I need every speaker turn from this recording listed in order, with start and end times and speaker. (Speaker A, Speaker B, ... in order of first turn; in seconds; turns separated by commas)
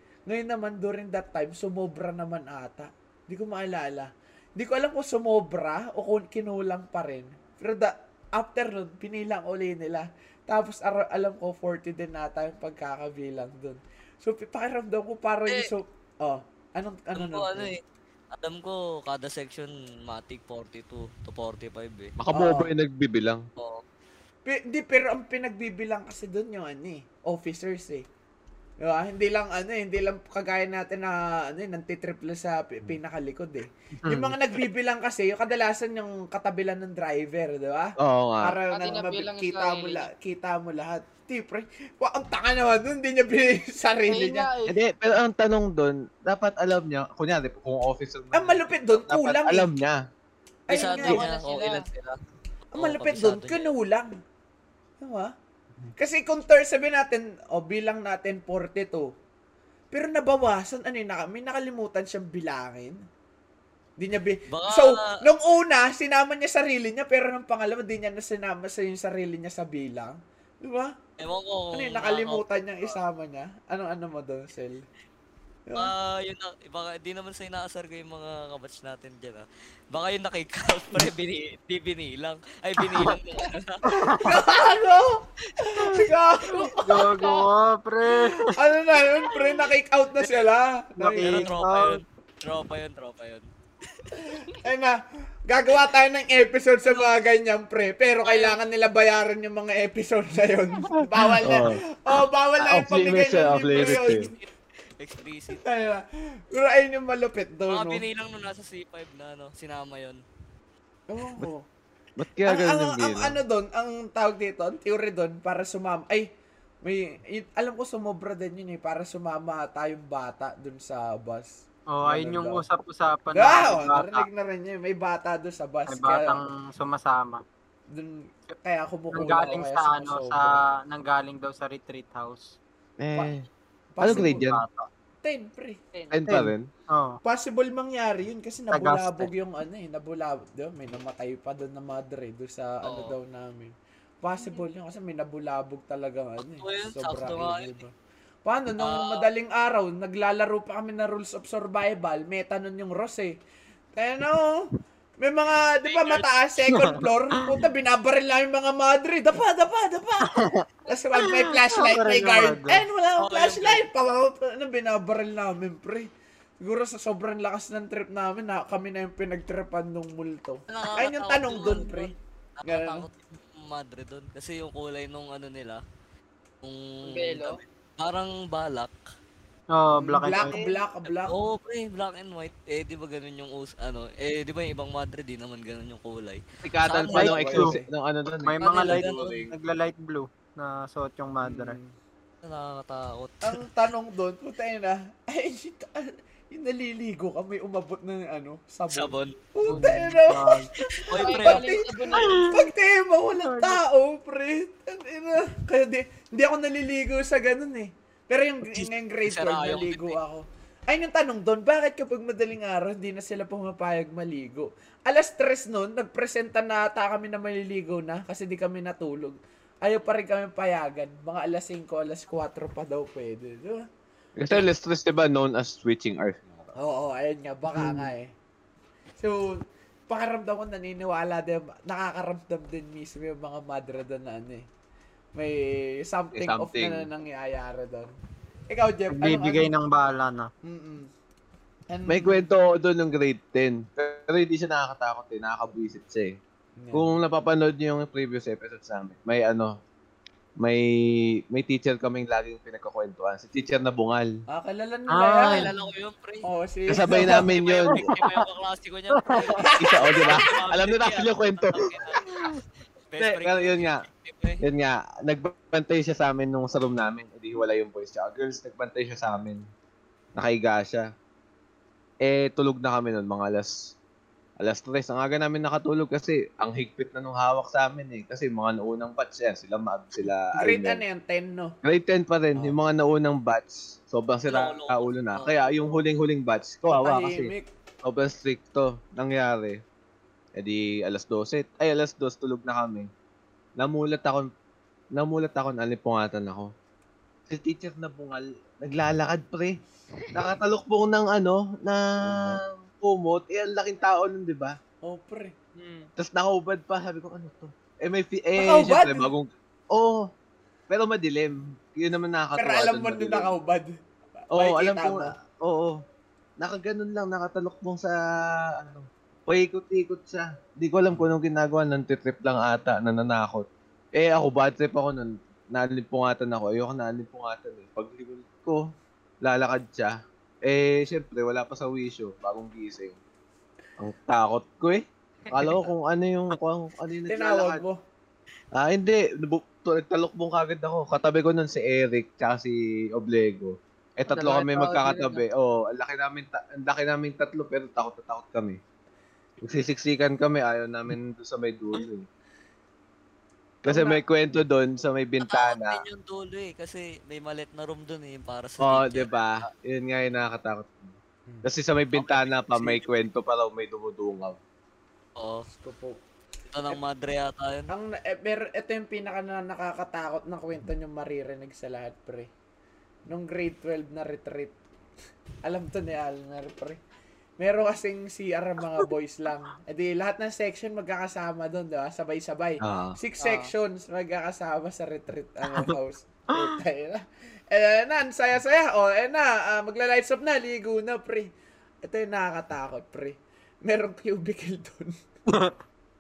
Speaker A: 0.3-17.7, Speaker B: 17.1-17.8, Speaker B: 18.3-22.1, Speaker C: 22.2-23.5, Speaker A: 22.3-22.7, Speaker B: 23.6-23.8, Speaker A: 24.4-28.1, Speaker A: 28.8-44.5, Speaker C: 38.0-38.6, Speaker D: 38.7-40.1, Speaker D: 44.1-44.8, Speaker C: 44.7-50.1, Speaker A: 48.3-49.7, Speaker A: 50.7-51.3, Speaker B: 50.7-52.2, Speaker D: 50.7-51.9, Speaker B: 52.7-53.7, Speaker A: 52.7-54.2, Speaker A: 55.0-55.3, Speaker A: 56.0-59.1, Speaker A: 59.9-63.1, Speaker A: 64.0-71.0, Speaker B: 64.5-65.1, Speaker B: 71.2-72.9, Speaker A: 71.7-74.9, Speaker A: 75.7-75.9, Speaker B: 75.8-83.8, Speaker E: 83.9-84.3, Speaker A: 84.1-87.2, Speaker E: 86.8-88.5, Speaker A: 88.5-91.5, Speaker B: 90.2-90.5, Speaker E: 91.0-92.0, Speaker B: 91.2-93.5, Speaker A: 94.2-104.4, Speaker B: 98.2-98.5, Speaker C: 101.4-101.8, Speaker C: 102.6-104.3, Speaker B: 103.3-104.5, Speaker B: 105.0-105.6, Speaker A: 105.5-108.0, Speaker B: 107.7-110.2, Speaker A: 111.1-111.7, Speaker C: 112.2-113.4, Speaker A: 112.5-116.3, Speaker A: 116.8-122.7, Speaker E: 121.9-124.3, Speaker A: 123.3-126.4, Speaker E: 125.9-127.4, Speaker A: 127.9-130.7, Speaker E: 129.1-132.6, Speaker C: 133.0-133.5, Speaker A: 133.9-134.5, Speaker C: 134.0-134.6, Speaker E: 134.0-134.9, Speaker A: 135.2-135.8, Speaker C: 136.1-136.7, Speaker E: 136.3-137.2, Speaker A: 137.2-147.9, Speaker E: 138.7-139.3, Speaker B: 142.8-143.2, Speaker B: 146.6-147.8, Speaker A: 148.4-153.4, Speaker B: 148.8-149.3, Speaker A: 153.9-166.1, Speaker B: 155.8-156.3, Speaker E: 156.7-157.0, Speaker E: 160.3-160.6, Speaker E: 161.6-162.8, Speaker B: 163.2-163.8, Speaker A: 166.6-173.1, Speaker B: 170.7-175.8, Speaker B: 176.6-178.9, Speaker D: 177.0-177.6, Speaker E: 179.7-180.6, Speaker A: 179.9-181.4, Speaker B: 181.2-187.4, Speaker C: 186.6-189.5, Speaker E: 187.1-187.8, Speaker A: 187.1-187.9, Speaker E: 188.4-191.8, Speaker B: 188.6-189.4, Speaker A: 191.4-191.9, Speaker B: 192.4-193.6, Speaker A: 193.4-223.9, Speaker B: 198.9-199.4, Speaker E: 199.7-200.7, Speaker B: 200.9-202.3, Speaker D: 201.2-202.5, Speaker E: 202.2-202.6, Speaker E: 203.4-203.8, Speaker B: 208.7-210.2, Speaker C: 224.4-226.7, Speaker A: 226.8-228.3, Speaker A: 229.2-234.7, Speaker A: 235.3-238.1, Speaker C: 236.3-237.1, Speaker A: 238.7-239.7, Speaker E: 239.1-240.5, Speaker A: 240.6-241.1, Speaker A: 241.9-242.5, Speaker C: 242.1-246.4, Speaker A: 246.8-247.2, Speaker C: 246.9-249.8, Speaker C: 250.6-254.4, Speaker A: 254.5-255.7, Speaker E: 255.1-255.7, Speaker B: 255.4-256.5, Speaker A: 256.4-257.4, Speaker C: 256.9-258.1, Speaker B: 257.2-264.6, Speaker E: 257.9-258.4, Speaker E: 259.2-259.6, Speaker A: 259.6-260.2, Speaker C: 259.8-262.2, Speaker C: 263.2-264.1, Speaker C: 264.6-269.7, Speaker C: 270.4-271.1, Speaker C: 272.2-274.0, Speaker C: 274.6-281.0, Speaker A: 280.6-281.8, Speaker C: 281.8-289.8, Speaker B: 284.5-285.9, Speaker A: 286.9-287.7, Speaker C: 290.6-293.1, Speaker C: 293.8-294.5, Speaker C: 295.1-296.7, Speaker C: 297.5-299.8, Speaker C: 300.3-304.8, Speaker A: 305.0-305.6, Speaker D: 305.8-306.1, Speaker C: 306.2-310.3, Speaker A: 308.6-309.3, Speaker C: 310.9-313.5, Speaker A: 312.6-315.4, Speaker C: 314.5-316.0, Speaker C: 316.6-333.2, Speaker C: 334.0-337.8, Speaker A: 337.3-338.0, Speaker C: 338.7-348.8, Speaker D: 344.3-345.4, Speaker C: 349.6-352.3, Speaker A: 353.8-354.2, Speaker C: 353.9-356.0, Speaker B: 355.4-359.7, Speaker C: 358.8-364.6, Speaker B: 362.1-363.1, Speaker B: 365.4-365.7, Speaker A: 365.7-366.2, Speaker B: 366.7-367.9, Speaker A: 367.9-372.5, Speaker A: 373.3-374.8, Speaker A: 375.6-377.0, Speaker A: 377.6-391.5, Speaker C: 382.8-383.2, Speaker D: 383.4-383.7, Speaker A: 392.0-395.1